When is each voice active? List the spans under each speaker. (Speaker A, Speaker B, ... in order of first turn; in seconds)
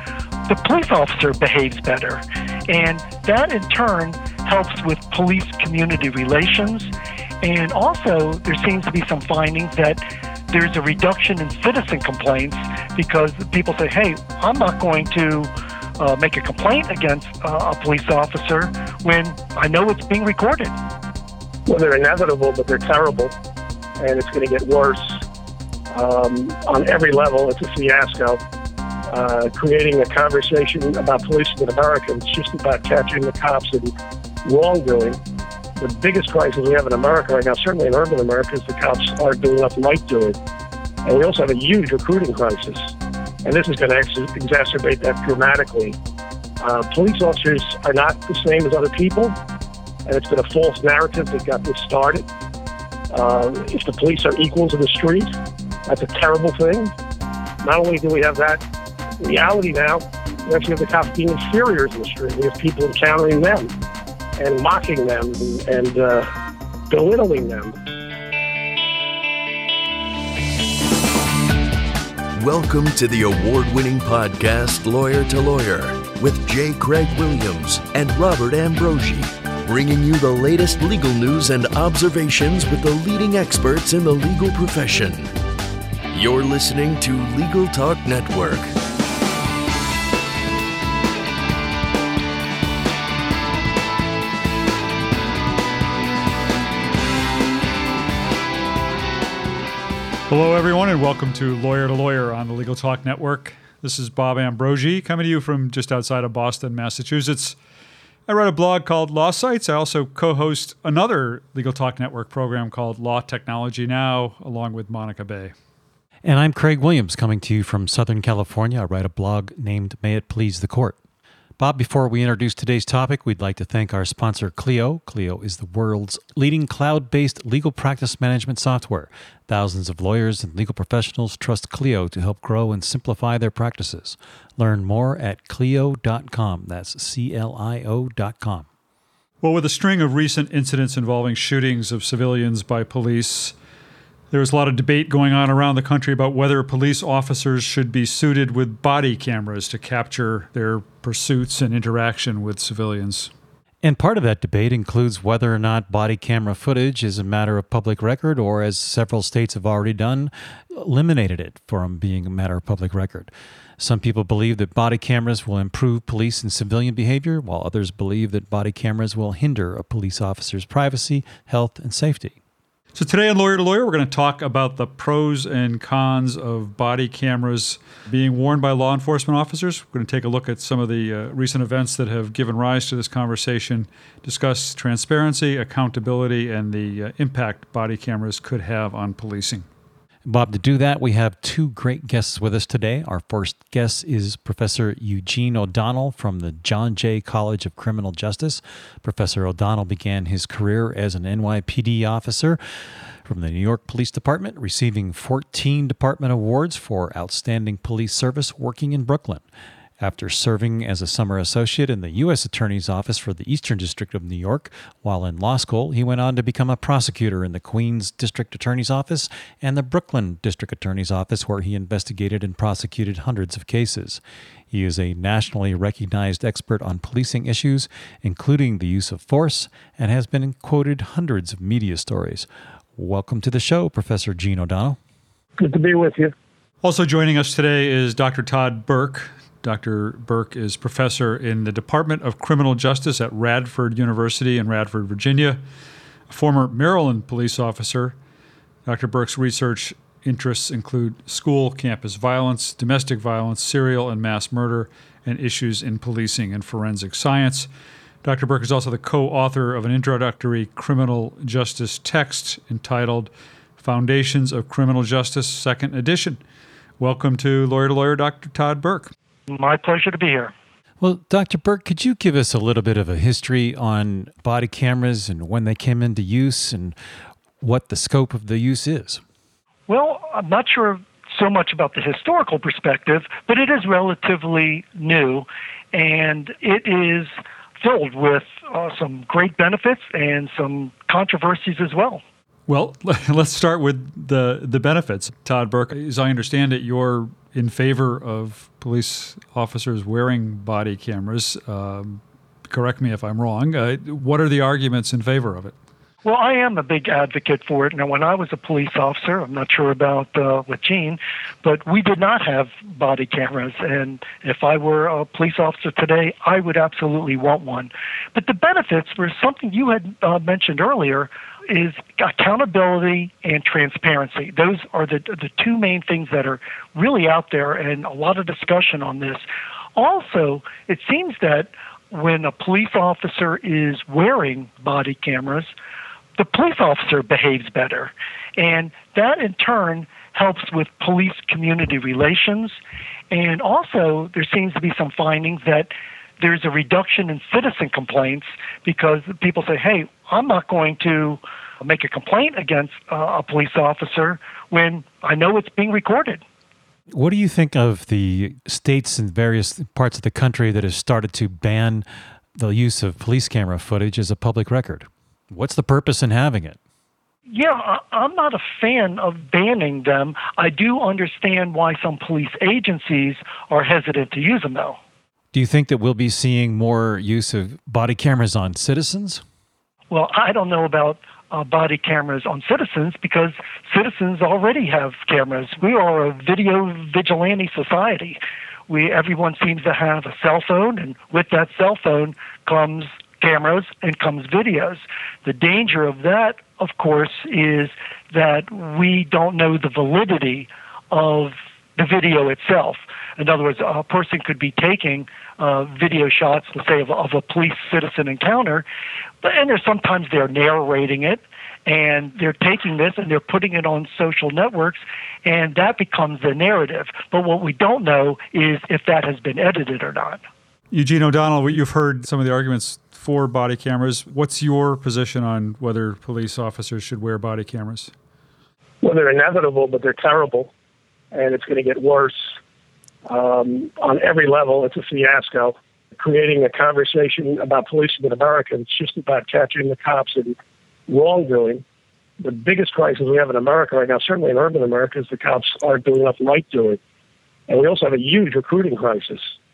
Speaker A: 0.5-6.9, 7.4-20.8, 269.5-270.5, 279.9-292.2, 306.2-329.4, 330.0-335.7, 336.4-342.8, 343.3-356.4, 367.5-375.0, 380.1-408.9, 409.4-420.4
Speaker B: 21.7-23.4, 24.0-25.2, 25.9-28.4, 29.1-33.9, 34.4-35.2, 35.8-40.4, 41.0-42.9, 43.5-46.0, 46.6-49.4, 50.1-52.3, 53.1-55.3, 55.9-56.9, 57.6-58.6, 59.2-63.7, 64.4-66.3, 66.9-67.8, 235.6-236.3, 429.0-430.7, 431.3-432.5, 433.3-440.6, 441.1-441.8, 442.4-447.0, 447.7-449.5
Speaker C: 72.4-85.3, 86.1-88.7
Speaker D: 100.3-107.6, 108.3-115.5, 139.4-143.5, 144.3-153.3, 172.9-189.7, 236.8-245.6, 246.3-248.2, 248.9-257.7, 258.2-266.4, 267.0-269.1, 292.7-305.7, 420.9-428.1
Speaker E: 116.2-121.0, 121.6-138.7, 153.8-172.4, 190.2-202.6, 203.2-209.4, 210.0-235.0, 271.0-276.9, 277.6-279.2, 357.1-362.1, 362.6-366.8, 375.5-379.4